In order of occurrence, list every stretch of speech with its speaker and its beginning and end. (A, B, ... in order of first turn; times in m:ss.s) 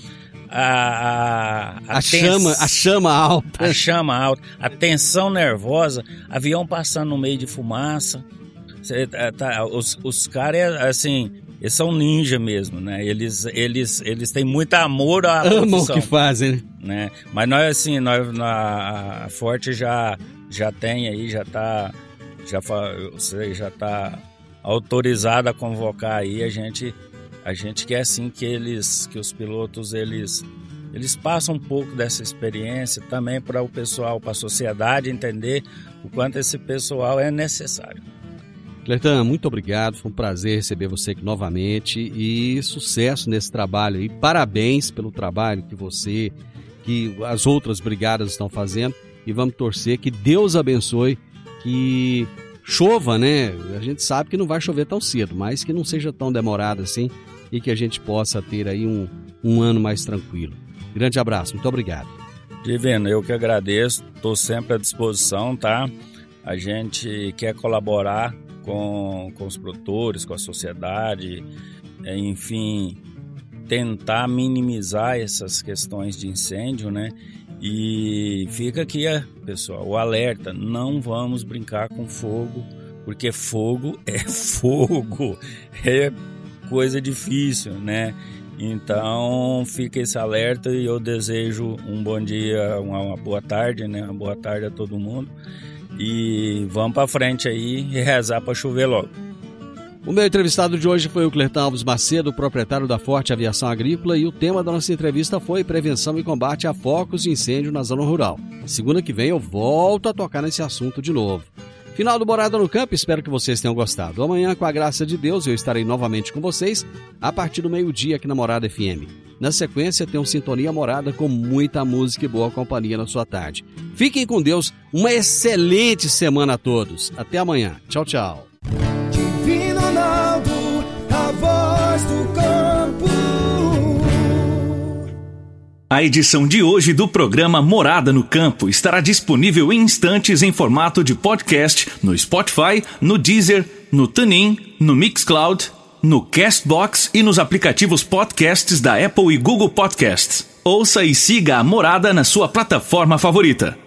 0:00.5-0:02.8 A
0:01.9-0:03.8 B
0:03.6-0:08.2 A
0:08.8-0:16.1 A
0:15.4-0:16.6 B
0:16.8-0:38.0 A
0:38.9-1:02.1 B
1:02.6-1:05.9 A
1:06.4-1:11.5 A
1:12.0-1:13.0 A
1:13.7-1:26.2 A
1:26.7-1:35.3 A
1:36.0-1:39.1 A
1:40.0-2:08.5 B
2:09.1-2:15.0 C
2:15.9-2:33.8 D